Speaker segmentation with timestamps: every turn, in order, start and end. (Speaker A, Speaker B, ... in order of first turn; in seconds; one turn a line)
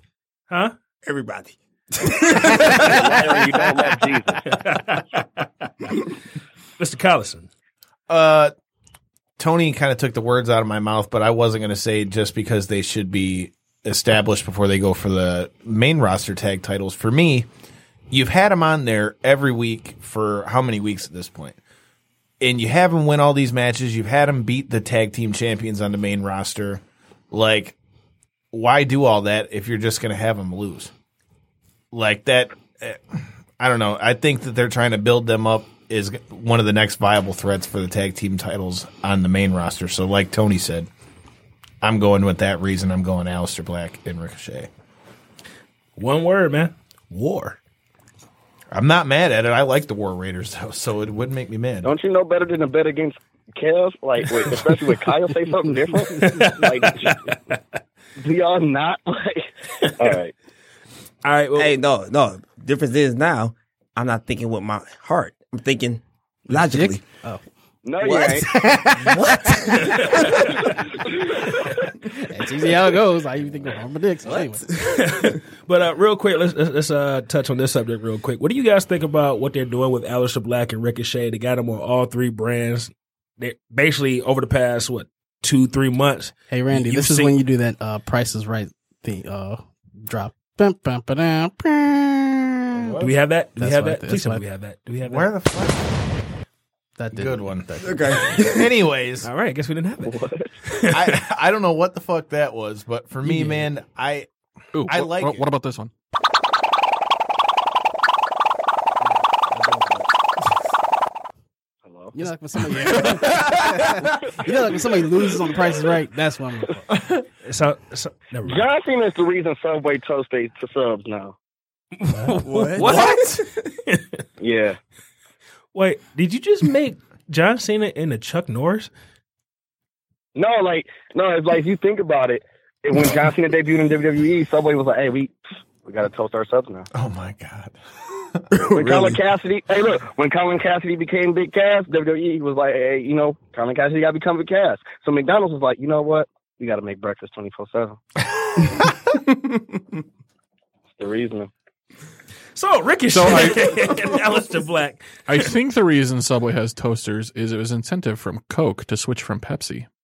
Speaker A: 0.5-0.8
Speaker B: 1.1-3.6
Speaker C: 2.4-4.4
Speaker A: 4.5-6.0
Speaker A: 6.8-7.5
Speaker D: 8.1-8.5
Speaker D: 9.4-17.5
Speaker D: 18.1-21.6
Speaker D: 22.4-27.8
Speaker D: 28.5-30.9
Speaker D: 31.9-40.9
Speaker D: 41.8-44.7
Speaker A: 46.0-47.6
Speaker D: 48.7-51.9
Speaker C: 51.8-57.4
Speaker A: 56.2-57.3
Speaker C: 58.2-60.3
Speaker A: 61.2-61.7
Speaker B: 61.5-67.0
Speaker E: 66.5-67.4
Speaker C: 67.8-68.5
Speaker B: 68.0-70.5
Speaker E: 68.1-69.6
Speaker A: 69.7-70.6
Speaker C: 70.9-71.8
Speaker E: 72.2-74.7
Speaker B: 74.4-75.4
Speaker A: 74.7-87.4
Speaker E: 86.5-93.0
Speaker D: 92.7-93.1
Speaker A: 93.0-95.3
Speaker E: 93.6-94.4
Speaker D: 95.0-96.0
Speaker E: 97.0-98.0
Speaker D: 97.1-99.3
Speaker B: 97.8-98.7
Speaker A: 99.2-101.2
Speaker C: 100.1-100.5
Speaker D: 100.9-104.3
Speaker E: 103.2-103.7
Speaker F: 104.8-105.9
Speaker D: 104.9-105.5
Speaker A: 109.5-110.0
Speaker C: 111.9-112.2
Speaker E: 112.1-116.8
Speaker D: 116.9-117.2
Speaker A: 117.4-118.7
Speaker C: 118.5-121.3
Speaker A: 122.0-124.2
Speaker B: 122.4-123.6
Speaker D: 122.8-123.4
Speaker C: 124.4-124.8
Speaker A: 125.7-128.9
Speaker C: 130.4-136.9
Speaker D: 136.9-139.2
Speaker C: 138.7-148.0
Speaker C: 151.0-151.5
Speaker A: 152.6-155.5
Speaker F: 153.1-154.2
Speaker F: 155.3-159.9